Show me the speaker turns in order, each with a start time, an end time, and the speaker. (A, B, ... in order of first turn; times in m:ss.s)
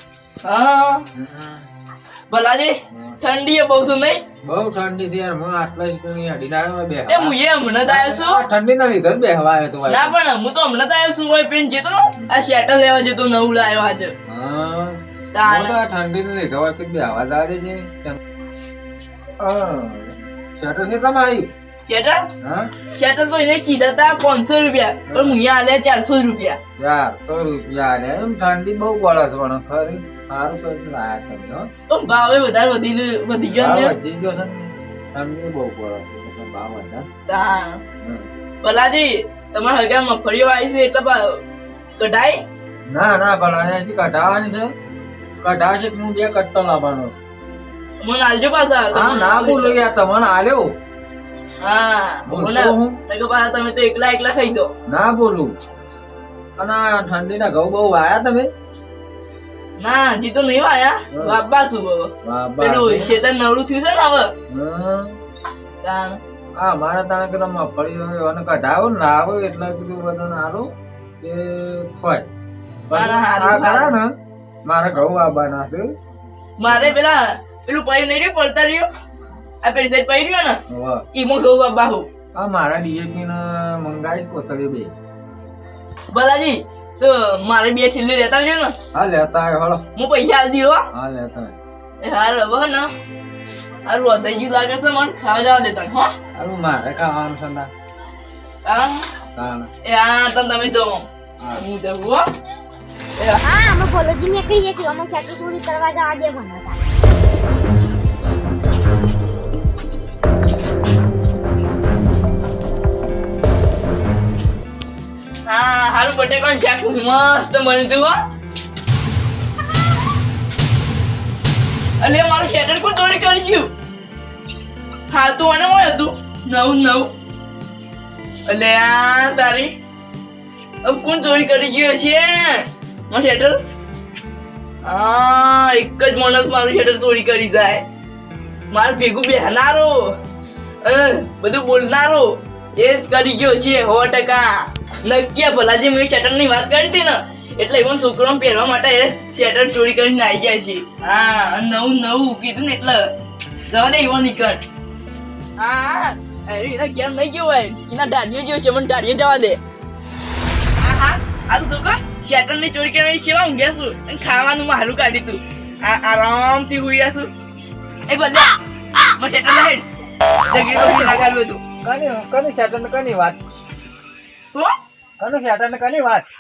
0:00.4-0:01.1 A
0:01.1-0:01.7 B
0:02.3-0:04.2 A
0:02.9-0:03.2 B
0:04.4-0:10.2 B
0:07.1-0:08.5 A
0:09.9-0:14.1 A
0:14.3-0:18.2 B
0:15.3-0:15.8 A
0:19.4-0:21.5 B
0:21.9-0:22.3 A
0:22.4-0:22.7 B
0:23.0-0:26.6 A
0:25.1-0:25.4 B
0:26.8-0:31.7 B
0:31.9-0:33.9 A
0:33.5-0:37.1 B
0:37.3-0:37.8 A
0:38.0-0:38.3 B
0:38.6-0:41.4 A
0:42.0-0:42.4 A
0:42.9-0:44.7 B
0:45.4-0:47.1 B
0:48.0-0:49.8 A
0:48.9-0:50.7 B
0:51.6-0:54.7 A
0:52.3-0:53.0 B
0:54.9-0:55.5 B
0:56.6-0:58.5 B
0:59.8-1:04.3 A
1:01.1-1:01.4 B
1:02.2-1:03.2 B
1:04.5-1:05.2 B
1:05.8-1:06.2 A
1:06.6-1:12.3 B
1:12.9-1:14.2 B
1:12.9-1:13.9 A
1:14.7-1:15.9 B
1:16.6-1:18.9 A
1:16.7-1:17.0 B
1:19.6-1:20.6 A
1:20.7-1:21.0 B
1:21.1-1:22.1 A
1:22.4-1:24.9 B
1:26.1-1:28.8 A
1:28.9-1:29.8 B
1:30.0-1:30.9 A
1:30.9-1:31.6 B
1:32.0-1:32.9 A
1:33.9-1:36.1 A
1:36.3-1:37.7 B
1:38.6-1:39.1 A
1:39.4-1:39.7 B
1:39.8-1:42.3 A
1:43.2-1:43.4 A
1:43.4-1:46.8 C
1:55.5-1:58.2 A
2:02.0-2:03.7 A
2:05.1-2:07.1 A
2:08.5-2:09.8 A
2:10.8-2:13.6 A
2:14.8-2:17.8 A
2:18.7-2:20.2 A
2:20.8-2:33.1 A
2:33.7-2:34.6 A
2:35.6-2:39.6 A
2:40.8-2:47.3 A
2:48.1-2:49.9 A
2:50.5-2:51.6 A
2:50.5-2:51.2 B
2:51.8-2:53.4 B
2:55.2-2:56.3 B